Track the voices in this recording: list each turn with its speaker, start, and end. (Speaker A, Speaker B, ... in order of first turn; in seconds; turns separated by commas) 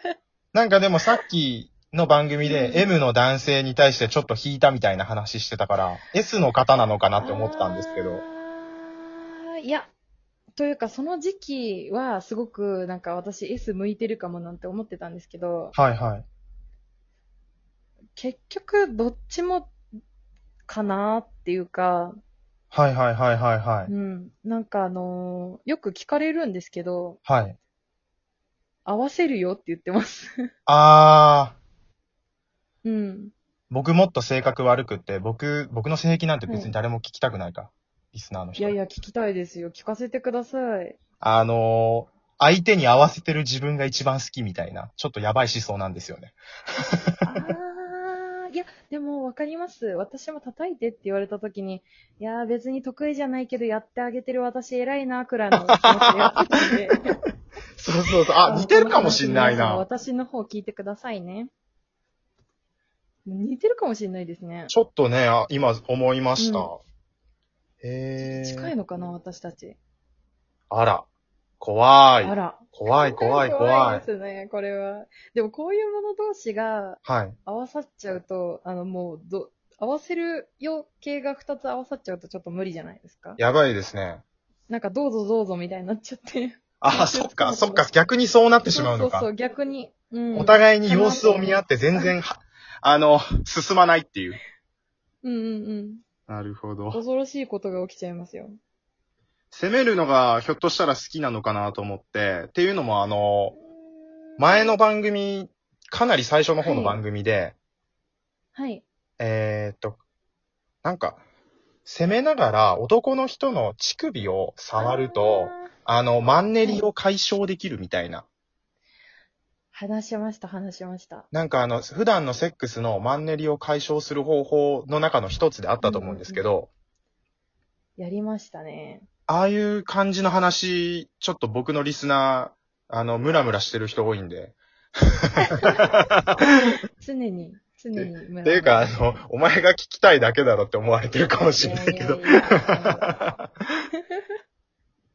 Speaker A: 0.5-8.2, Speaker B: 2.4-2.9, Speaker B: 7.2-9.9, Speaker B: 10.6-15.8, Speaker A: 15.7-16.3, Speaker B: 18.1-19.7, Speaker B: 20.7-22.2, Speaker A: 22.7-23.9, Speaker B: 23.9-27.2, Speaker A: 27.3-27.6, Speaker B: 28.9-30.3, Speaker A: 30.7-31.6, Speaker B: 32.8-33.3, Speaker A: 33.7-38.8, Speaker B: 36.5-36.7, Speaker B: 38.6-41.0, Speaker A: 41.2-46.4, Speaker B: 47.3-57.0, Speaker A: 57.8-59.8, Speaker B: 58.4-61.5, Speaker B: 63.3-64.7, Speaker A: 64.7-66.8, Speaker B: 66.4-66.7, Speaker A: 67.8-68.7, Speaker B: 68.2-69.8, Speaker A: 70.7-71.1, Speaker A: 71.6-74.0, Speaker B: 72.2-83.4, Speaker A: 77.0-77.4, Speaker A: 83.4-84.2, Speaker B: 84.7-87.9, Speaker A: 86.8-89.3, Speaker B: 88.7-91.4, Speaker A: 90.3-94.4, Speaker B: 95.2-96.0, Speaker A: 96.3-97.0, Speaker B: 96.9-98.6, Speaker A: 99.5-103.6, Speaker B: 103.8-104.7, Speaker A: 104.4-107.6, Speaker B: 106.6-107.0, Speaker B: 108.5-108.8, Speaker A: 109.2-110.0, Speaker A: 110.8-111.2, Speaker A: 111.8-118.3, Speaker B: 114.8-115.7, Speaker B: 119.7-121.3, Speaker A: 121.3-126.7, Speaker B: 125.8-126.5, Speaker B: 128.0-129.1, Speaker A: 129.3-134.6, Speaker A: 135.5-136.5, Speaker B: 137.0-138.9, Speaker A: 137.9-143.5, Speaker B: 141.5-143.2